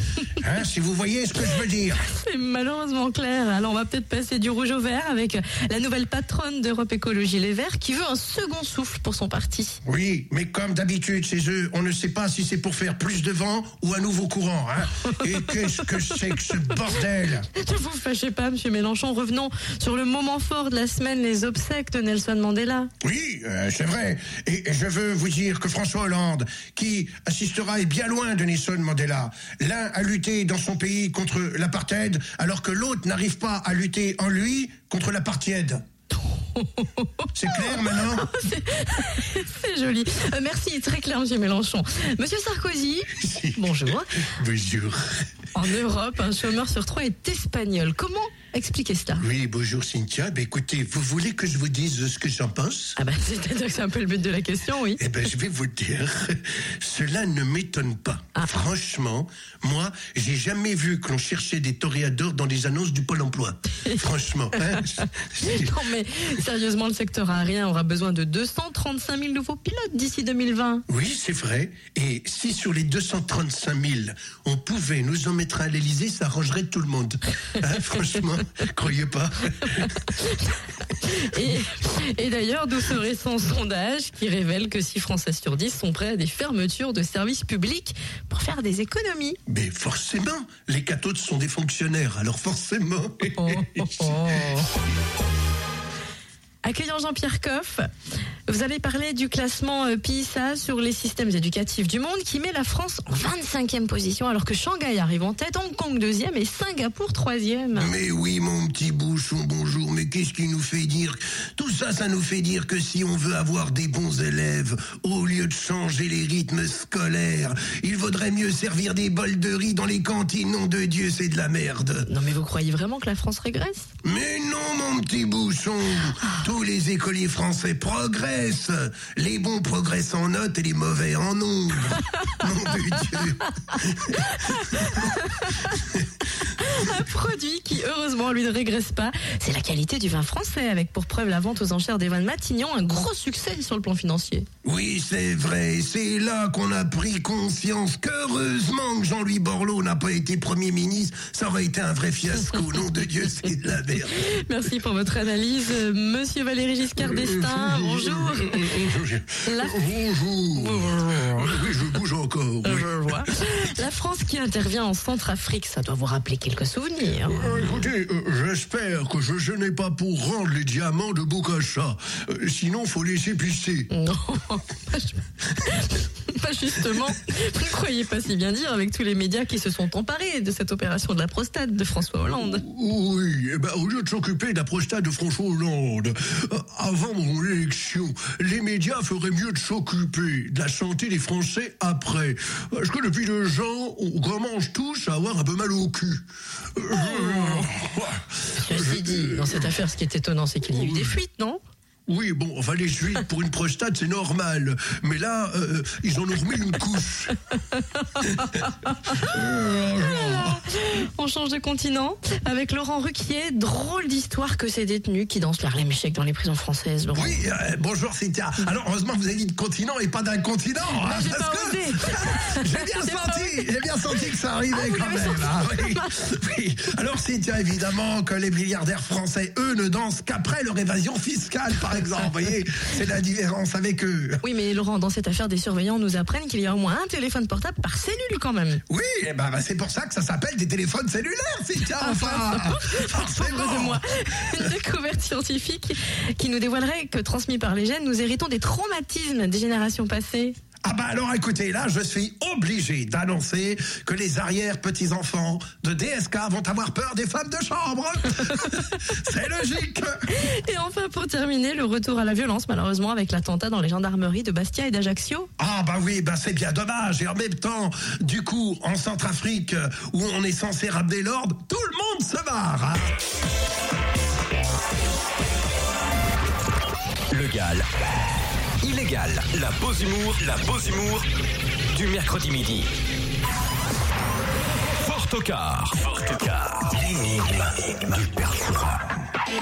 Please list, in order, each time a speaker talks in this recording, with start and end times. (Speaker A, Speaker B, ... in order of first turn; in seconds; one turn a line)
Speaker A: 0.4-2.0
Speaker B: 2.0-9.8
Speaker A: 9.8-17.5
Speaker B: 15.0-16.4
Speaker B: 17.5-22.9
Speaker A: 23.0-35.8
Speaker B: 36.2-44.1
Speaker A: 37.3-38.3
Speaker A: 43.1-45.3
Speaker B: 45.5-49.2
Speaker A: 49.2-53.0
Speaker B: 53.0-55.0
Speaker A: 55.0-65.7
Speaker B: 64.5-70.8
Speaker A: 70.9-80.0
Speaker B: 79.7-89.4
Speaker A: 89.5-94.7
Speaker B: 93.3-94.7
Speaker B: 96.6-97.9
Speaker B: 98.5-107.9
Speaker A: 107.7-122.1
Speaker B: 122.1-123.9
Speaker A: 124.0-136.1
Speaker B: 134.2-135.8
Speaker B: 136.4-144.5
Speaker A: 144.6-154.2
Speaker B: 154.1-158.8
Speaker A: 157.0-163.4
Speaker B: 159.4-159.8
Speaker B: 160.5-161.7
Speaker B: 162.6-167.6
Speaker A: 167.3-173.9
Speaker B: 173.9-182.6
Speaker A: 182.4-199.7
Speaker B: 196.9-197.7
Speaker B: 198.5-201.6
Speaker A: 200.7-201.2
Speaker A: 202.1-207.4
Speaker B: 207.8-217.4
Speaker A: 208.2-210.6
Speaker A: 217.1-234.4
Speaker B: 221.0-224.2
Speaker B: 224.7-226.3
Speaker B: 234.4-238.8
Speaker A: 238.9-244.7
Speaker B: 242.0-250.6
Speaker A: 250.8-260.2
Speaker B: 260.3-265.5
Speaker A: 265.6-273.1
Speaker C: 277.3-277.9
Speaker C: 278.8-281.2
Speaker C: 281.9-282.9
Speaker C: 284.9-289.0